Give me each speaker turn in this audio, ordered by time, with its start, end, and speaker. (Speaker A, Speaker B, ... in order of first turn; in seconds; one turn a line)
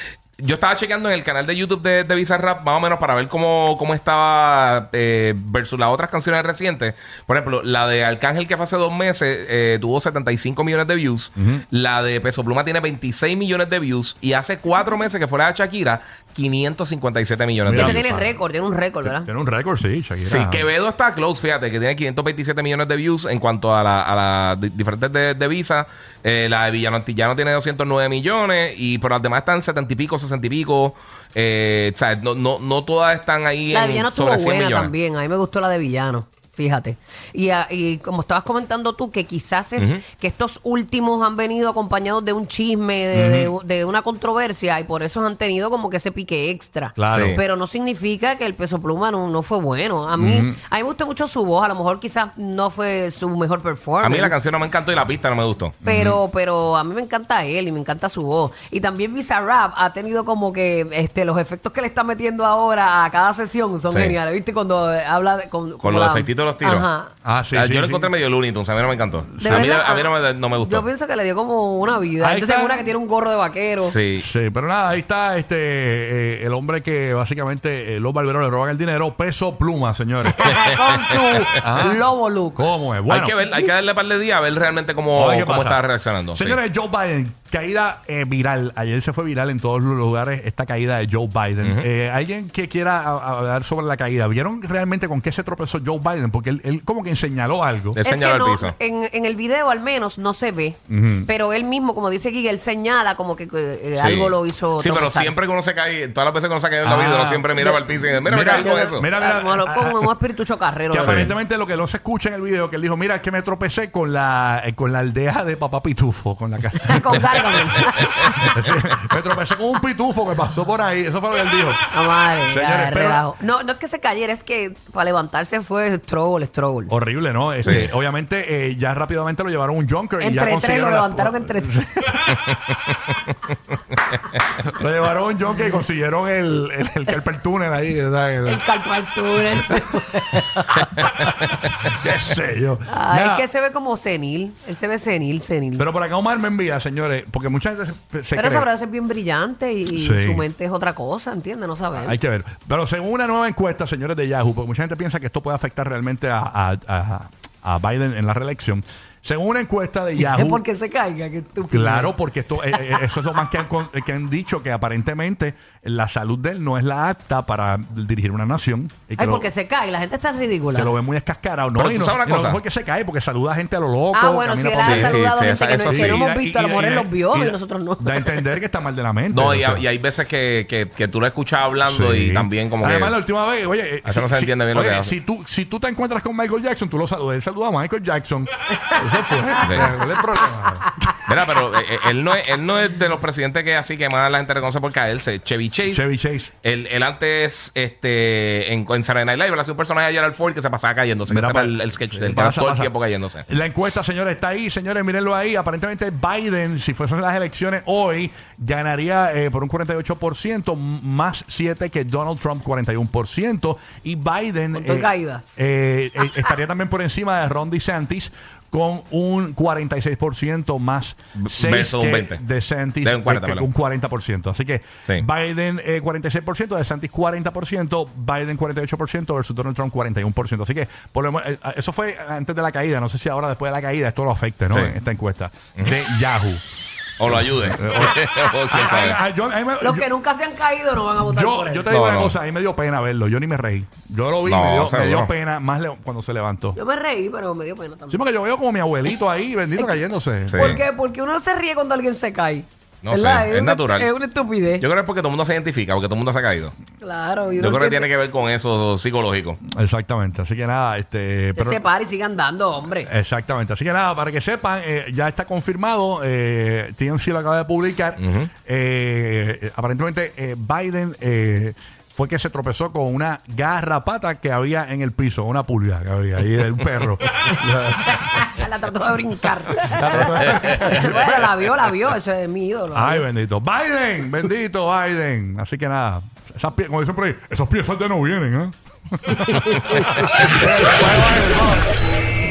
Speaker A: 0.4-18.1
Speaker B: 11.3-11.6
Speaker B: 17.6-18.4
Speaker C: 17.7-19.3
Speaker B: 19.0-20.7
Speaker A: 20.3-34.9
Speaker C: 33.7-54.4
Speaker B: 43.1-43.5
Speaker B: 47.0-47.4
Speaker A: 47.1-47.4
Speaker B: 50.1-50.6
Speaker A: 54.0-56.1
Speaker B: 55.8-56.2
Speaker C: 55.8-67.1
Speaker A: 63.9-64.2
Speaker A: 65.8-66.9
Speaker B: 67.2-68.1
Speaker A: 67.5-70.9
Speaker B: 69.3-69.7
Speaker C: 69.4-73.9
Speaker B: 72.2-72.9
Speaker A: 73.8-74.3
Speaker B: 74.2-80.7
Speaker C: 80.3-82.6
Speaker B: 81.5-82.0
Speaker B: 82.5-83.3
Speaker A: 83.1-86.6
Speaker B: 85.1-85.8
Speaker B: 86.3-98.0
Speaker A: 91.6-91.9
Speaker A: 97.9-98.8
Speaker C: 98.0-105.4
Speaker B: 100.9-101.3
Speaker A: 104.0-109.1
Speaker B: 106.8-107.5
Speaker C: 107.5-111.3
Speaker B: 108.2-110.1
Speaker B: 110.9-123.2
Speaker A: 111.0-111.3
Speaker C: 116.8-118.5
Speaker C: 121.9-126.9
Speaker B: 126.9-132.4
Speaker A: 127.6-127.9
Speaker C: 130.2-131.8
Speaker B: 134.6-138.6
Speaker C: 138.4-141.0
Speaker B: 141.8-143.5
Speaker C: 142.9-145.8
Speaker B: 145.8-148.7
Speaker C: 148.3-152.2
Speaker B: 149.9-150.4
Speaker B: 152.0-160.6
Speaker C: 160.2-163.2
Speaker B: 161.7-169.5
Speaker C: 169.2-170.9
Speaker B: 170.7-175.2
Speaker A: 171.7-172.6
Speaker C: 174.1-178.5
Speaker A: 174.8-176.2
Speaker B: 175.9-179.8
Speaker A: 179.3-183.2
Speaker B: 181.8-191.1
Speaker A: 184.0-185.1
Speaker A: 189.6-189.9
Speaker A: 191.2-196.1
Speaker B: 195.9-196.5
Speaker A: 196.6-203.4
Speaker B: 201.3-202.9
Speaker B: 203.5-236.6
Speaker C: 214.7-215.6
Speaker C: 216.2-216.5
Speaker A: 221.4-222.4
Speaker A: 223.0-223.7
Speaker A: 234.7-235.0
Speaker A: 237.2-239.2
Speaker B: 237.3-240.1
Speaker C: 239.8-241.9
Speaker B: 241.3-246.8
Speaker A: 241.9-242.4
Speaker A: 244.4-245.3
Speaker C: 246.8-248.2
Speaker B: 248.1-250.8
Speaker A: 250.5-250.8
Speaker C: 250.5-254.8
Speaker A: 253.0-254.1
Speaker A: 254.8-256.8
Speaker C: 257.0-258.1
Speaker A: 257.6-259.6
Speaker B: 259.7-261.8
Speaker C: 261.6-263.1
Speaker B: 263.0-278.5
Speaker A: 268.2-268.5
Speaker C: 278.1-283.2
Speaker B: 279.8-281.5
Speaker B: 282.9-291.9
Speaker C: 289.3-291.0